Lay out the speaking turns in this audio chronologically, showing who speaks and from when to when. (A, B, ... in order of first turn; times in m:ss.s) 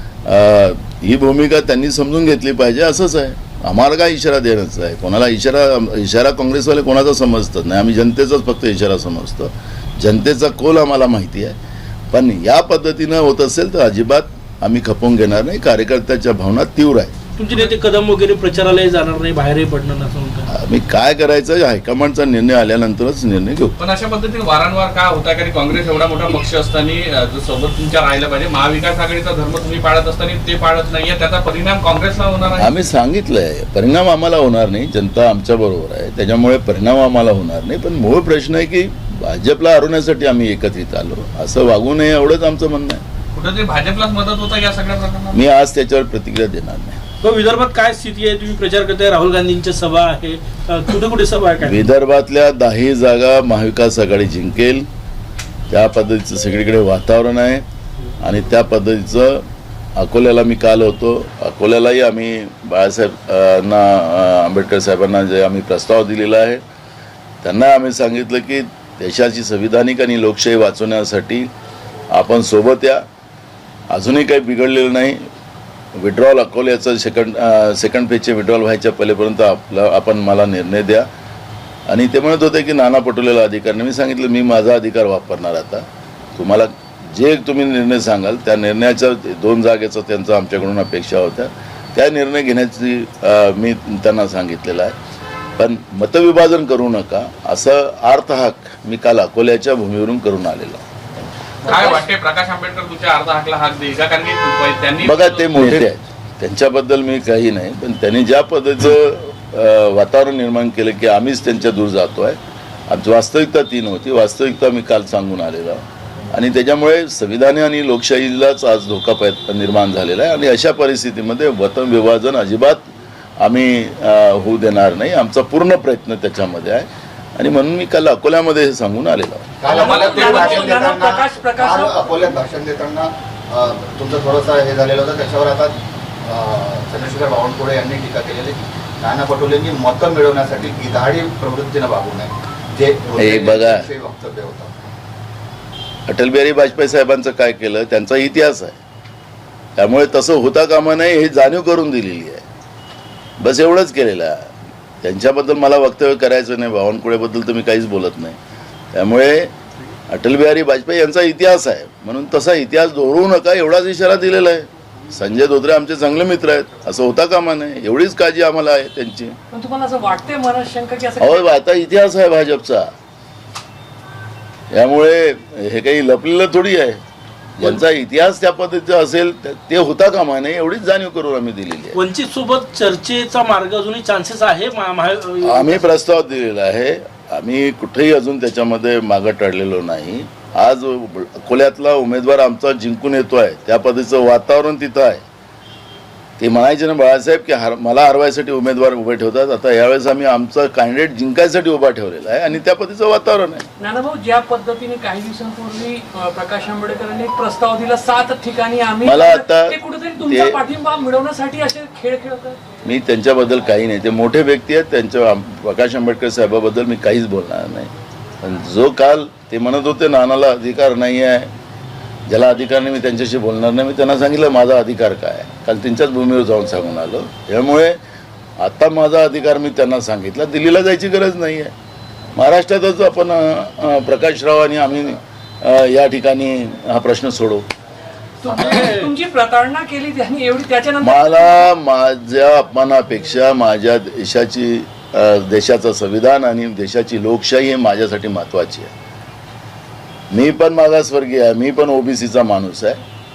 0:00.2-0:11.6 A
0:12.1-0:17.2 A
0:17.4-0:20.5 B
0:20.5-0:23.8 A
0:23.8-0:32.7 C
0:32.6-0:43.0 A
0:43.4-0:45.4 C
0:45.3-0:47.0 A
0:47.2-0:51.8 B
0:51.6-0:54.9 A
0:55.7-0:57.6 A
0:58.2-0:59.4 A
1:00.0-1:06.6 A
1:07.4-1:11.5 A
1:12.1-1:13.0 A
1:13.9-1:15.2 A
1:16.0-1:21.1 A
1:21.9-1:34.9 A
1:35.6-1:40.8 A
1:41.6-1:45.8 C
1:45.0-1:52.4 A
1:52.9-2:09.6 A
2:09.6-2:24.8 D
2:09.7-2:10.9 C
2:09.7-2:12.3 E
2:23.2-2:23.9 A
2:26.1-2:28.8 A
2:29.8-2:32.4 A
2:33.4-2:34.5 A
2:35.0-2:38.4 A
2:38.9-2:39.5 A
2:40.1-2:49.4 A
2:49.5-2:51.5 E
2:51.2-2:52.9 A
2:54.7-2:57.0 A
2:57.6-3:02.0 A
3:01.9-3:05.9 B
3:05.4-3:15.2 A
3:16.4-3:23.7 A
3:23.8-3:32.6 E
3:29.0-3:30.6 A
3:32.8-3:41.5 A
3:42.3-3:48.0 A
3:48.6-3:51.7 A
3:52.3-3:57.7 A
3:58.4-4:01.6 E
4:01.0-4:08.9 A
4:10.3-4:13.0 A